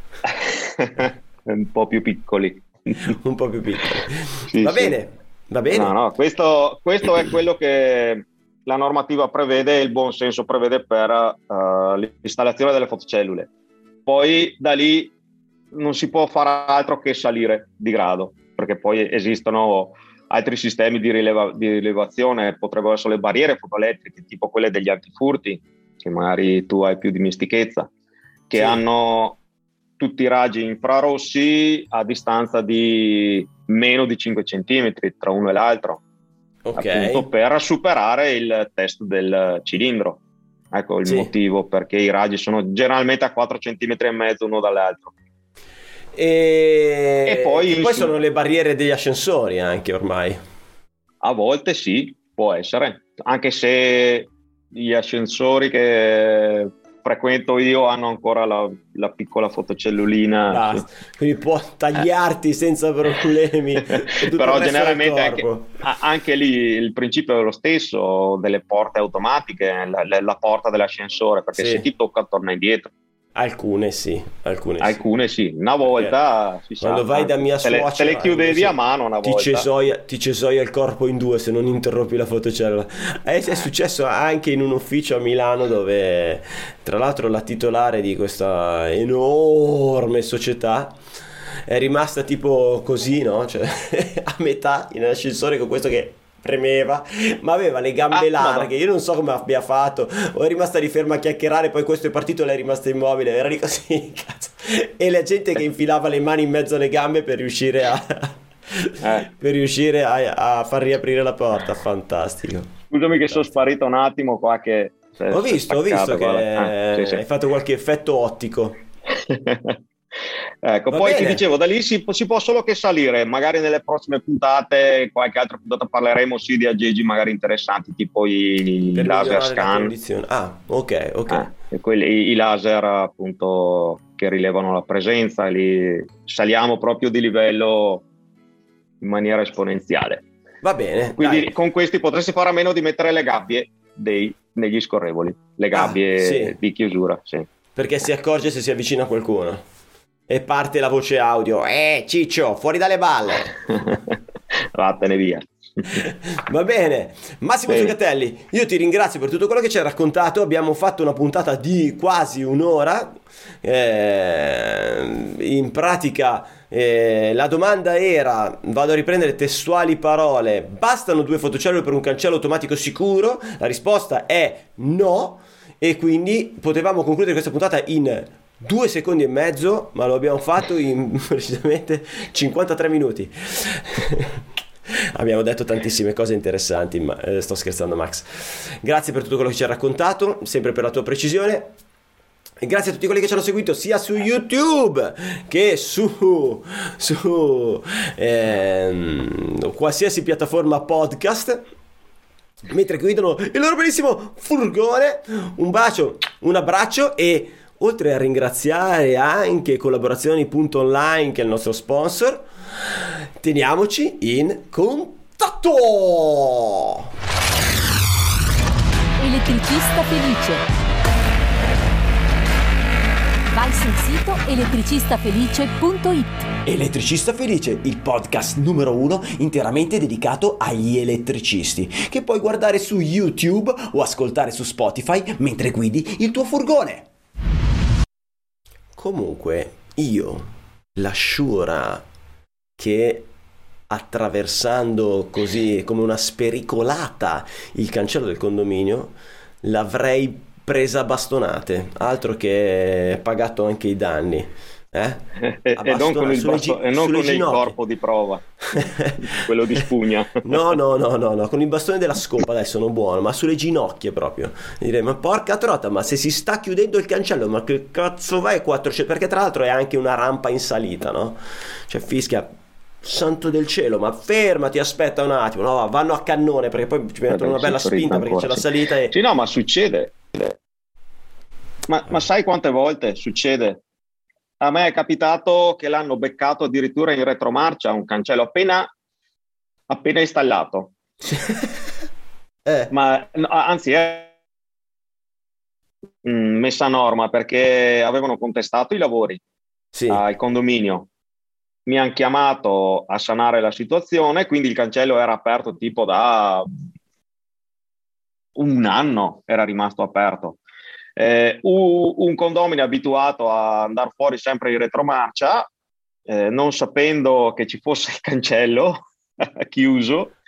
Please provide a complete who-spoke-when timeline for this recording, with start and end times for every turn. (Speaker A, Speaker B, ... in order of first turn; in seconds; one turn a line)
Speaker A: 0.2-3.0
Speaker B: 3.0-5.9
Speaker A: 4.5-5.0
Speaker A: 5.7-13.5
Speaker A: 14.1-15.1
Speaker A: 15.7-27.9
Speaker A: 28.5-29.4
Speaker B: 28.6-28.8
Speaker A: 30.0-36.0
Speaker B: 36.6-37.2
Speaker A: 36.8-40.2
Speaker A: 40.7-45.1
Speaker B: 41.0-41.3
Speaker B: 46.1-50.4
Speaker A: 47.2-48.1
Speaker A: 51.2-60.9
Speaker B: 60.5-65.7
Speaker A: 63.8-72.9
Speaker B: 71.6-71.9
Speaker B: 73.3-75.0
Speaker A: 74.8-79.7
Speaker B: 76.8-91.0
Speaker B: 91.7-112.8
Speaker A: 98.1-98.7
Speaker A: 109.0-109.3
Speaker A: 112.9-117.2
Speaker B: 115.3-118.8
Speaker A: 119.1-119.8
Speaker A: 120.6-129.9
Speaker B: 120.9-121.4
Speaker B: 128.9-131.5
Speaker A: 131.3-138.1
Speaker A: 139.0-140.2
Speaker B: 140.6-141.5
Speaker A: 141.2-147.5
Speaker B: 145.7-146.6
Speaker B: 147.8-149.6
Speaker B: 150.3-153.6
Speaker A: 153.7-154.2
Speaker A: 154.8-156.0
Speaker B: 155.9-184.4
Speaker A: 157.7-157.9
Speaker B: 185.2-191.7
Speaker B: 192.6-201.6
Speaker B: 202.7-217.1
Speaker C: 219.2-220.6
Speaker C: 223.5-226.5
Speaker B: 226.6-237.1
Speaker B: 239.0-242.0
Speaker B: 242.8-243.3
Speaker B: 243.9-255.2
Speaker A: 255.4-258.4
Speaker B: 255.7-257.8
Speaker B: 258.7-259.4
Speaker A: 259.2-260.6
Speaker B: 260.4-279.1
Speaker A: 277.3-280.6
Speaker A: 281.9-283.8
Speaker A: 284.6-288.9
Speaker A: 289.9-290.9
Speaker B: 291.2-291.8
Speaker A: 292.9-294.3
Speaker A: 296.2-299.4
Speaker B: 299.9-300.2
Speaker A: 300.1-301.1
Speaker A: 301.9-306.7
Speaker A: 308.6-310.6
Speaker A: 311.2-315.7
Speaker A: 316.3-320.3